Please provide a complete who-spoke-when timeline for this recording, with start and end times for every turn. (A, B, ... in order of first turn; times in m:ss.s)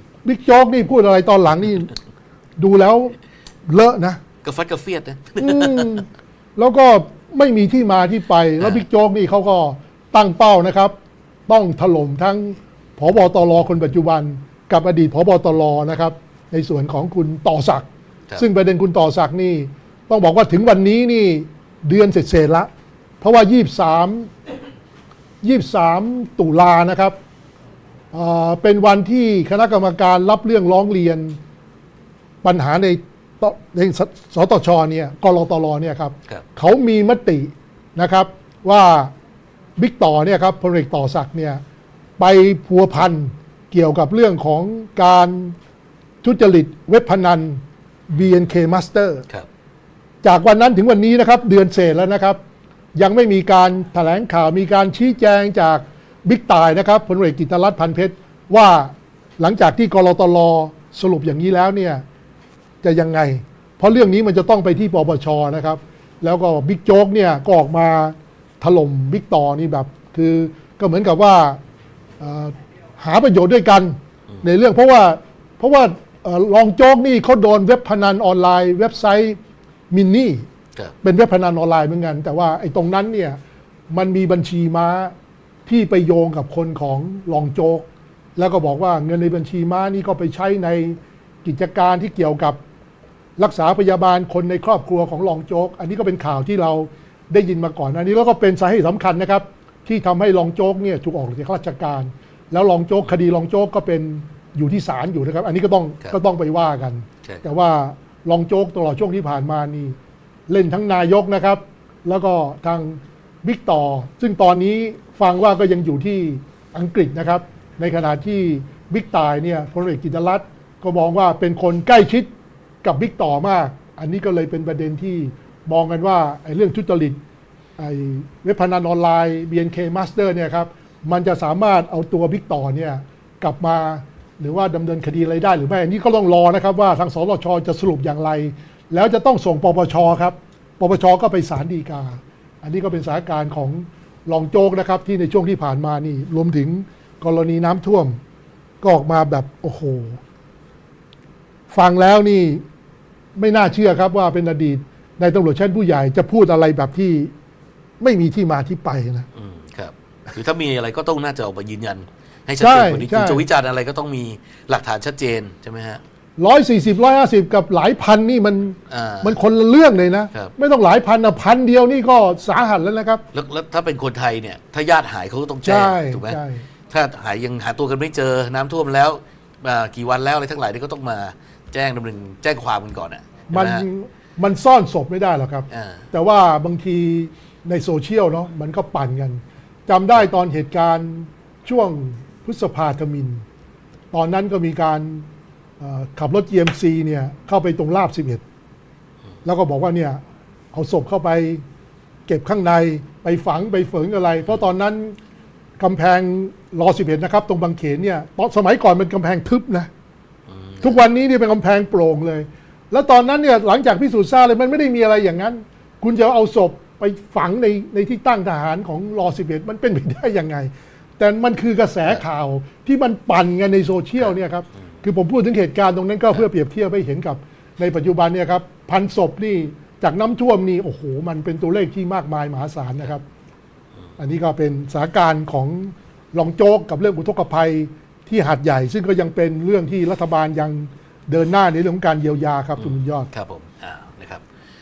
0:00.2-0:01.9 A
0:02.6-0:03.1 A
0:03.6-0:04.2 A
0:04.4-0:05.9 B
0:05.4-0:10.9 A
0:11.5-0:17.8 A
0:18.4-0:22.7 A
0:23.2-0:24.3 A
0:25.4-0:27.2 A
0:28.1-0:31.4 A
0:32.4-0:39.1 A
0:39.8-0:41.6 A
0:42.2-0:45.5 A
0:46.2-0:49.2 A
0:50.2-0:52.4 A
0:52.9-1:02.0 A
1:02.8-1:11.6 A
1:12.2-1:19.4 A
1:19.9-1:20.4 A
1:21.0-1:23.4 A
1:23.9-1:25.1 A
1:25.6-1:32.6 A
1:33.4-1:50.0 A
1:50.5-2:02.3 A
2:02.8-2:07.2 A
2:07.8-2:28.2 A
2:28.8-2:30.2 A
2:31.7-2:32.6 A
2:33.4-2:37.3 A
2:38.0-2:39.3 A
2:39.3-2:46.0 B
2:42.6-2:43.4 A
2:46.4-2:53.2 A
2:48.9-2:49.4 B
2:53.3-2:56.4 B
2:55.6-2:56.6 A
2:56.9-3:03.8 B
3:03.5-3:13.4 A
3:05.7-3:06.0 B
3:14.1-3:15.2 A
3:15.8-3:18.4 A
3:19.4-3:20.2 A
3:20.7-3:21.6 A
3:22.3-3:25.2 A
3:25.8-3:29.9 A
3:30.5-3:31.0 B
3:30.8-3:53.2 A
3:54.2-4:03.3 A
4:02.8-4:04.4 B